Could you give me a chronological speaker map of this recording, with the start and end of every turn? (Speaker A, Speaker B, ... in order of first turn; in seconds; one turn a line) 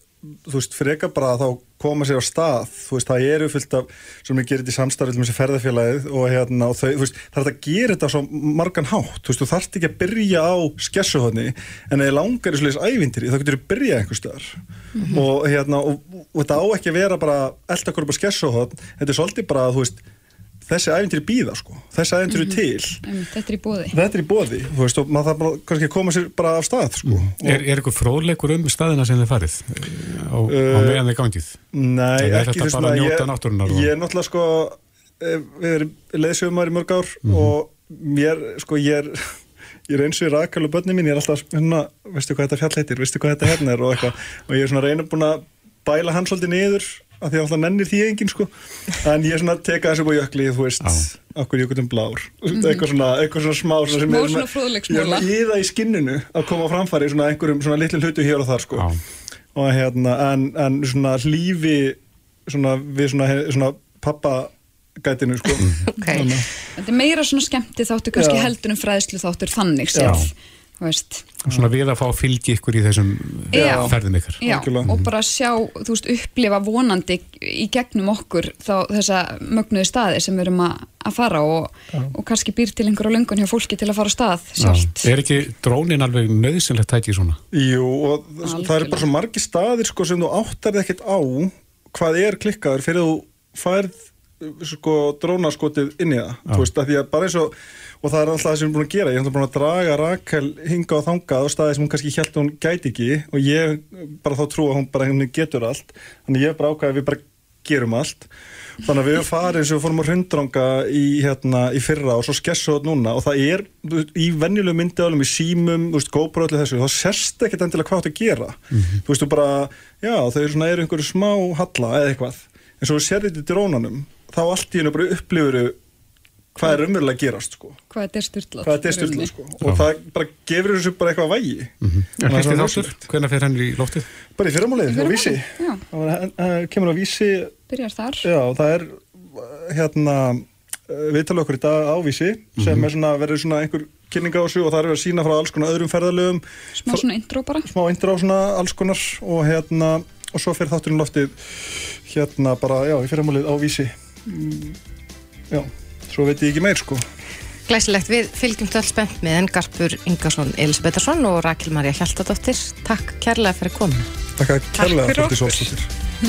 Speaker A: 0.5-20.0
Speaker B: 15.0-15.3
Speaker A: 20.7-23.0
Speaker B: 22.3-23.9
Speaker A: 23.9-27.6
Speaker C: 27.0-31.6
Speaker A: 30.5-31.1
Speaker A: 31.7-39.2
Speaker C: 32.2-33.9
Speaker C: 37.2-37.5
Speaker A: 39.9-58.9
Speaker C: 50.8-51.1
Speaker B: 52.5-52.8
Speaker B: 53.9-55.3
Speaker C: 58.7-59.0
Speaker A: 59.5-66.4
Speaker D: 66.0-66.3
Speaker B: 66.8-71.3
Speaker A: 68.1-68.5
Speaker A: 69.9-70.3
Speaker C: 71.5-75.1
Speaker A: 73.5-75.0
Speaker B: 73.5-85.0
Speaker C: 84.6-87.4
Speaker A: 87.5-108.3
Speaker B: 88.4-89.1
Speaker A: 108.8-125.8
Speaker C: 118.7-119.0
Speaker A: 126.5-127.8
Speaker B: 127.9-129.3
Speaker A: 128.6-131.7
Speaker C: 131.8-134.1
Speaker A: 132.2-133.0
Speaker A: 134.4-137.6
Speaker B: 134.9-135.8
Speaker B: 137.7-138.3
Speaker A: 138.2-147.1
Speaker C: 142.6-142.9
Speaker B: 146.7-147.7
Speaker A: 147.6-151.3
Speaker A: 152.0-154.8
Speaker A: 155.5-157.0
Speaker D: 157.7-164.1
Speaker A: 164.4-165.9
Speaker D: 164.8-165.6